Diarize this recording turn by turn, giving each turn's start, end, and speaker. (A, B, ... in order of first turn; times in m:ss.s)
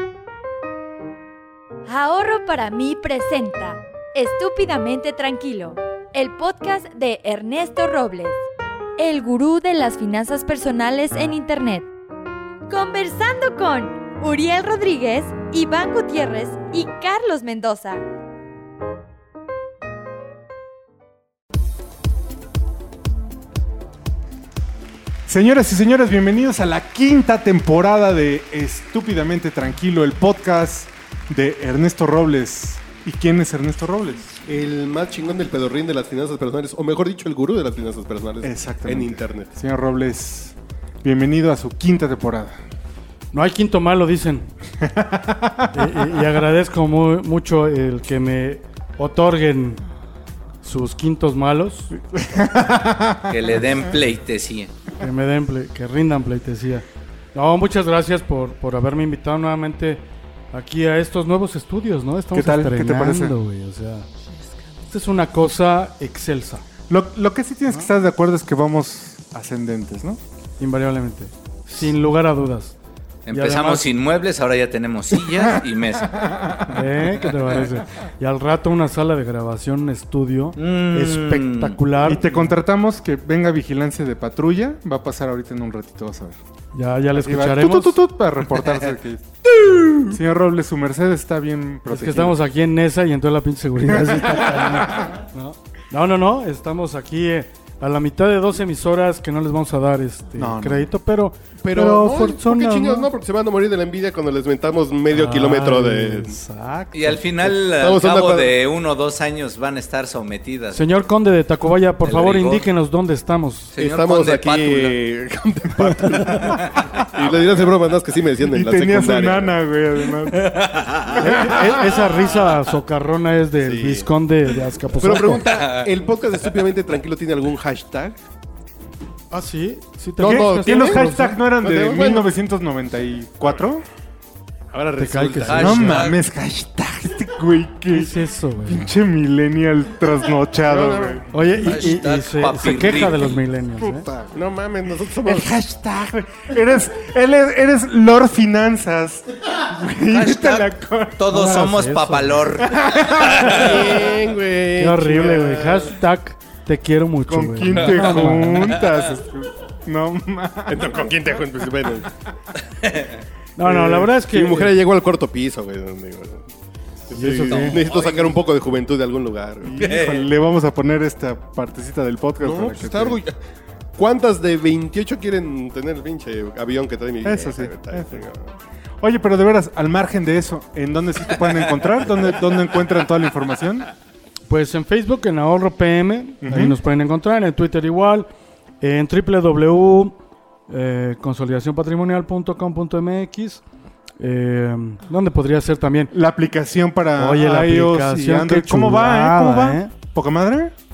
0:01.8-0:08.4 A
0:09.0-0:11.9 A
0:12.7-0:18.0 A
0:25.3-0:34.3 B
0:34.4-0:39.5 C
0:38.4-0:42.6 B
0:43.3-0:44.5 D
0:44.8-0:46.0 B
0:45.7-0:49.8 D
0:50.6-0:51.9 D
0:52.0-0:53.4 B
0:53.3-0:54.7 E
0:55.0-1:04.1 D
1:02.3-1:03.4 B
1:04.9-1:06.6 D
1:06.9-1:10.2 B
1:10.6-1:12.7 D
1:13.2-1:16.2 E
1:13.3-1:13.9 D
1:16.3-1:16.7 B
1:16.7-1:22.6 D
1:20.6-1:21.8 E
1:22.0-1:26.4 B
1:26.7-1:28.0 D
1:27.1-1:29.2 B
1:30.0-1:32.4 B
1:31.9-1:43.1 D
1:34.1-1:35.1 B
1:40.4-1:40.9 B
1:41.6-1:46.4 C
1:45.1-1:47.2 D
1:46.9-1:50.8 E
1:47.4-1:48.6 C
1:50.7-1:53.7 D
1:52.0-1:52.7 E
1:53.7-1:55.0 E
1:53.8-1:59.6 C
1:55.9-1:56.6 D
1:58.5-2:00.8 B
2:00.4-2:01.1 E
2:01.2-2:05.5 D
2:01.3-2:01.8 C
2:03.6-2:04.1 C
2:05.0-2:08.2 C
2:05.4-2:05.9 E
2:09.3-2:11.4 D
2:10.2-2:12.3 C
2:10.2-2:13.8 B
2:14.7-2:16.0 C
2:15.0-2:16.0 D
2:15.5-2:16.2 E
2:15.6-2:18.1 B
2:17.9-2:18.9 D
2:18.7-2:21.2 B
2:20.6-2:21.2 C
2:21.3-2:24.1 D
2:21.6-2:23.4 E
2:23.8-2:24.3 B
2:24.2-2:25.6 C
2:25.2-2:31.2 B
2:30.1-2:33.8 E
2:31.3-2:32.4 D
2:32.6-2:34.0 B
2:33.4-2:35.9 C
2:34.8-2:38.8 D
2:37.3-2:41.0 B
2:37.7-2:38.3 E
2:40.7-2:42.1 C
2:42.8-2:43.1 E
2:43.6-2:44.7 D
2:43.6-2:46.4 C
2:47.1-2:49.9 C
2:47.1-2:47.8 D
2:47.4-2:48.4 E
2:49.6-2:53.2 B
2:49.8-2:50.3 E
2:52.4-2:53.4 C
2:54.0-2:58.5 C
2:57.2-2:58.2 B
2:59.0-3:03.9 B
3:04.5-3:08.3 D
3:06.4-3:06.7 B
3:08.8-3:10.2 D
3:10.7-3:13.6 D
3:14.2-3:16.1 D
3:16.1-3:20.7 B
3:17.2-3:19.9 D